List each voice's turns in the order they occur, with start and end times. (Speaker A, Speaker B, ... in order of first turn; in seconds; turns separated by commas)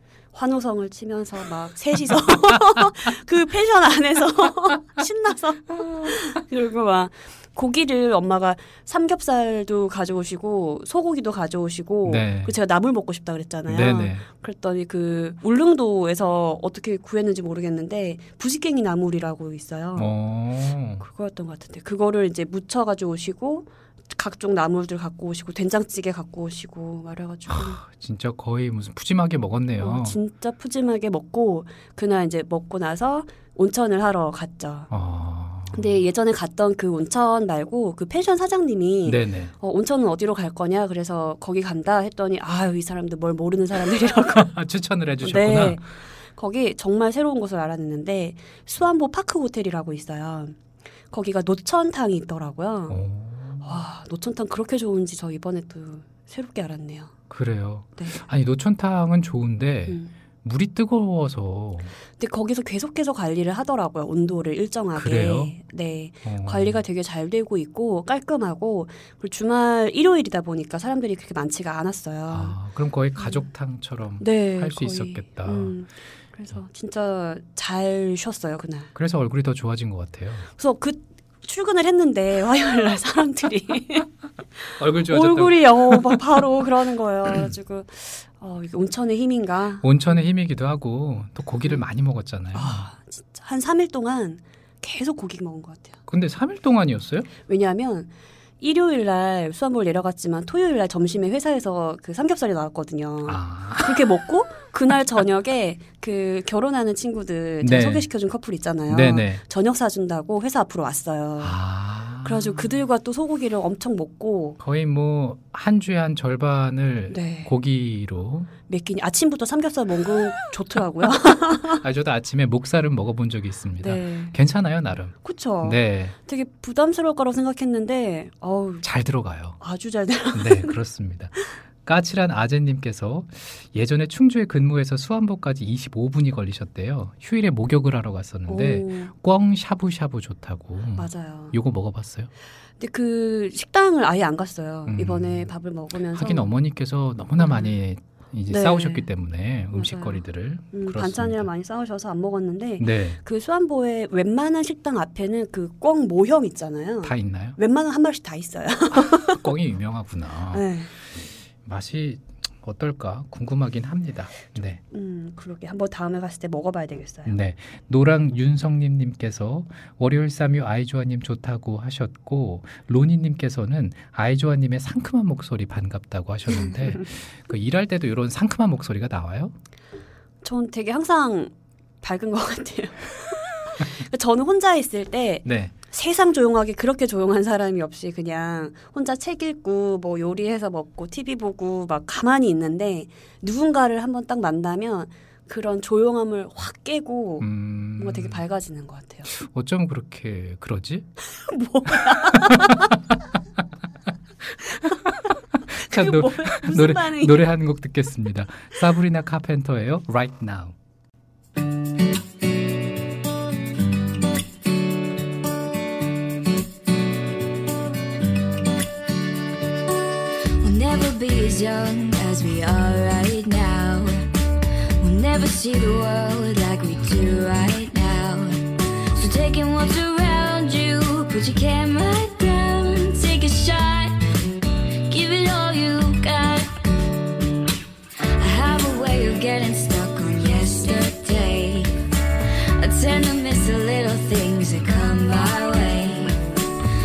Speaker A: 0.3-20.1, Speaker B: 12.0-12.5, Speaker B: 13.7-14.2, Speaker B: 19.9-21.0, Speaker A: 21.0-27.8, Speaker B: 27.5-30.2, Speaker A: 29.8-34.9, Speaker B: 34.9-35.9, Speaker A: 35.7-44.5, Speaker B: 39.0-39.5, Speaker B: 44.2-45.8, Speaker A: 45.2-50.6, Speaker A: 51.1-53.0, Speaker B: 52.9-53.8, Speaker A: 53.6-57.1, Speaker B: 57.3-61.9, Speaker A: 58.0-58.2, Speaker A: 59.9-60.1, Speaker A: 62.2-72.6, Speaker B: 64.9-65.5, Speaker B: 66.2-66.8, Speaker B: 72.3-75.8, Speaker A: 73.2-73.5, Speaker A: 74.2-78.9, Speaker B: 78.9-80.5, Speaker A: 80.6-84.1, Speaker B: 84.8-86.2, Speaker A: 85.1-89.8, Speaker B: 89.8-92.9, Speaker A: 92.5-96.0, Speaker B: 96.1-97.3, Speaker A: 97.5-111.6, Speaker B: 103.2-104.0, Speaker B: 107.6-108.1, Speaker B: 108.9-109.4, Speaker B: 111.4-112.8, Speaker A: 112.2-114.6, Speaker B: 114.6-118.5, Speaker A: 117.1-117.5, Speaker A: 118.7-121.8, Speaker B: 121.7-126.1, Speaker A: 123.8-124.3, Speaker A: 125.2-128.8, Speaker B: 128.8-129.6, Speaker A: 129.6-130.7, Speaker B: 130.3-142.3, Speaker A: 138.5-139.1, Speaker A: 140.9-141.6, Speaker A: 142.8-146.5, Speaker B: 144.8-145.5, Speaker B: 146.1-151.4, Speaker A: 147.4-147.8, Speaker A: 148.5-149.1, Speaker A: 149.7-159.4, Speaker B: 152.8-153.2, Speaker B: 157.0-157.6, Speaker B: 159.3-164.8, Speaker A: 160.5-160.9, Speaker A: 164.9-167.3, Speaker B: 167.2-179.5, Speaker A: 180.4-199.3, Speaker B: 185.4-185.7, Speaker B: 197.4-198.4, Speaker B: 199.2-201.1, Speaker A: 201.3-202.9, Speaker B: 202.0-203.2, Speaker A: 204.8-207.4, Speaker B: 204.9-210.8, Speaker C: 220.6-224.3, Speaker C: 225.0-228.6, Speaker C: 229.1-234.1, Speaker C: 235.1-236.7, Speaker C: 238.4-241.9, Speaker C: 242.8-246.4